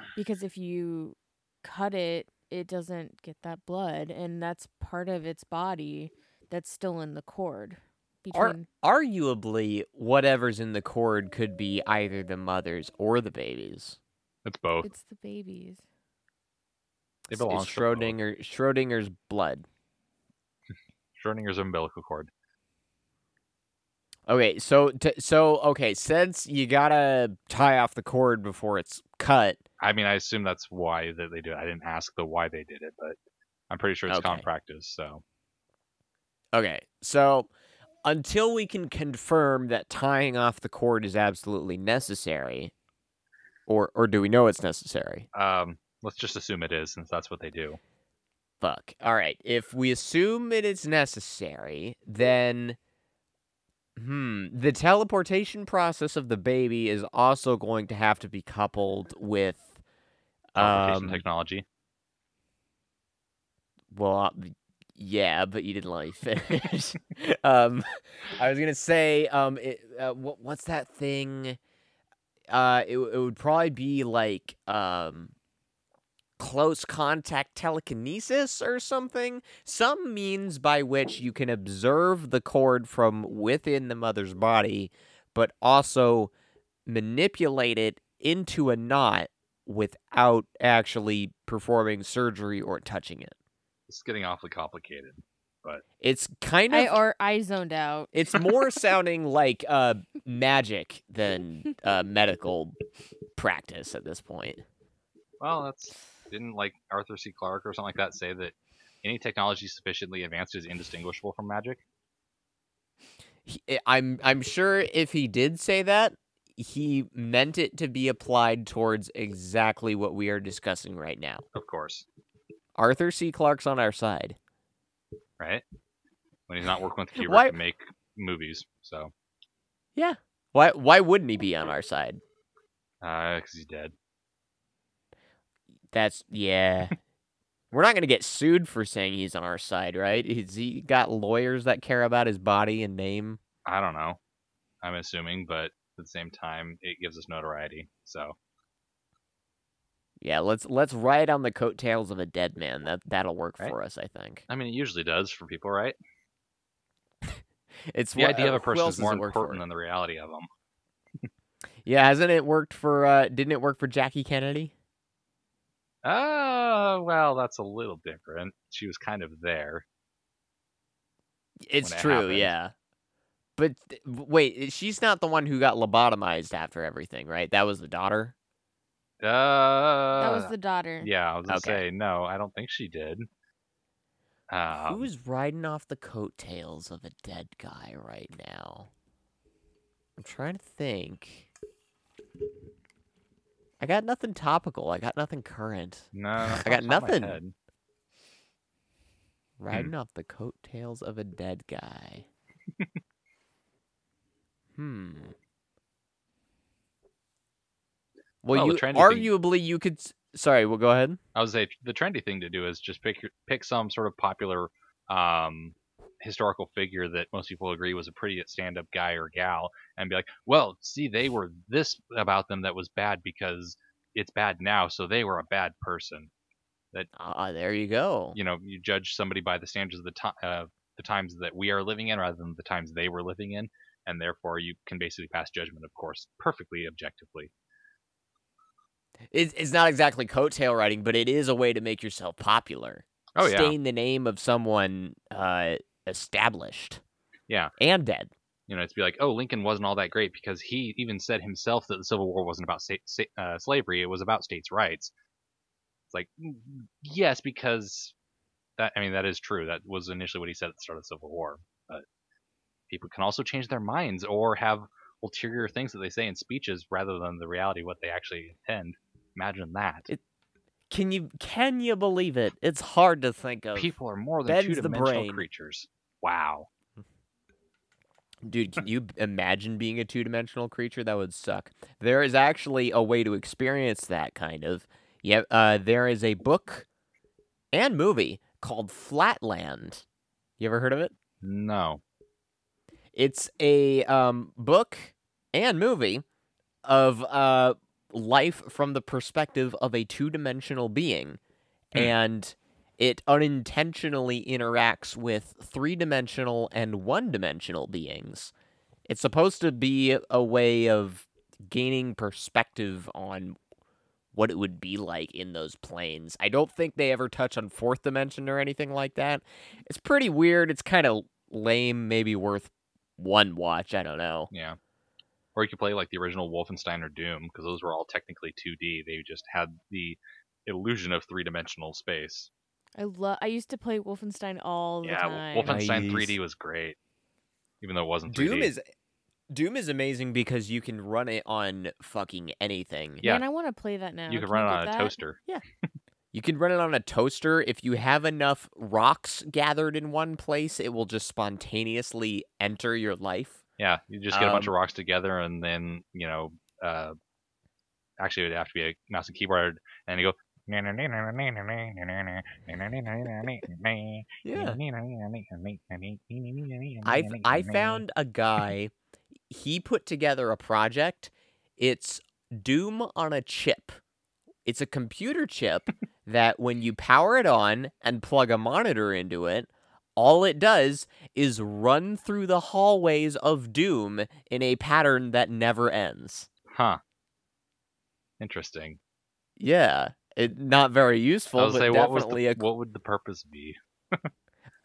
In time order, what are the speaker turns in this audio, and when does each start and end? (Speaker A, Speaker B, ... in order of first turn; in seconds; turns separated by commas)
Speaker A: 0.1-8.7, Speaker B: 8.3-14.0, Speaker C: 14.4-14.9, Speaker A: 14.8-15.8, Speaker C: 17.3-18.2, Speaker B: 17.3-19.7, Speaker C: 21.1-22.3, Speaker B: 24.3-29.6, Speaker C: 29.8-33.2, Speaker C: 33.7-35.2, Speaker B: 34.1-34.5, Speaker B: 36.5-37.5, Speaker B: 38.0-42.7, Speaker B: 43.7-45.3, Speaker C: 45.3-47.8, Speaker B: 48.6-52.8, Speaker B: 54.0-59.8, Speaker B: 60.5-61.2, Speaker C: 60.6-61.6, Speaker B: 63.9-71.6, Speaker B: 72.5-75.3, Speaker B: 76.4-86.3, Speaker B: 86.9-93.3, Speaker C: 93.9-95.8, Speaker B: 96.0-97.0, Speaker A: 96.7-98.1, Speaker B: 98.1-102.8, Speaker B: 103.4-104.6, Speaker C: 105.4-111.8, Speaker B: 113.5-121.4, Speaker C: 121.5-122.0, Speaker B: 122.8-124.4, Speaker C: 125.4-125.6, Speaker C: 126.5-129.1, Speaker B: 127.2-127.5, Speaker B: 130.0-132.2, Speaker C: 133.0-133.9, Speaker B: 135.9-137.0, Speaker B: 137.7-143.4, Speaker C: 143.7-144.2, Speaker C: 144.8-148.4, Speaker B: 150.2-154.4, Speaker C: 154.5-156.0, Speaker B: 157.9-159.6, Speaker C: 158.2-160.5, Speaker B: 161.9-164.7, Speaker C: 166.0-169.8, Speaker B: 171.6-172.7, Speaker C: 171.8-172.5, Speaker B: 173.6-178.3, Speaker C: 179.2-183.3, Speaker A: 180.2-181.1, Speaker B: 181.5-181.8, Speaker C: 184.5-185.1, Speaker B: 184.7-188.9, Speaker B: 190.2-191.5, Speaker B: 193.8-197.4, Speaker C: 196.1-197.5, Speaker B: 199.6-202.3, Speaker B: 204.8-205.3, Speaker B: 208.4-211.2, Speaker C: 208.5-209.3, Speaker C: 211.3-226.3, Speaker B: 227.2-228.4, Speaker C: 228.3-237.5, Speaker B: 239.3-247.0, Speaker C: 243.4-243.8, Speaker B: 247.8-248.3, Speaker C: 248.7-255.1, Speaker C: 256.1-258.1, Speaker C: 258.8-262.1, Speaker C: 262.9-270.1, Speaker B: 270.9-273.9, Speaker C: 273.8-276.7, Speaker B: 274.5-275.5, Speaker B: 278.4-286.9, Speaker B: 287.7-290.0, Speaker B: 290.6-291.1, Speaker C: 291.4-292.0, Speaker B: 293.1-296.2, Speaker B: 296.9-301.4, Speaker B: 301.9-308.5, Speaker B: 309.1-313.6, Speaker B: 314.4-324.5, Speaker C: 324.5-324.8, Speaker C: 325.6-332.5, Speaker A: 333.0-335.8, Speaker C: 335.0-337.0, Speaker B: 335.6-336.4, Speaker C: 337.8-338.7, Speaker B: 338.3-338.9, Speaker B: 339.5-343.2, Speaker A: 343.2-345.1, Speaker C: 344.3-345.4, Speaker B: 346.3-353.6, Speaker C: 353.8-357.1, Speaker B: 354.3-354.7, Speaker C: 358.2-368.0, Speaker B: 364.4-364.8, Speaker B: 367.1-368.9, Speaker B: 369.5-374.0, Speaker B: 374.7-386.5, Speaker C: 386.7-387.0, Speaker C: 388.4-389.0, Speaker B: 389.6-392.6, Speaker C: 391.6-394.3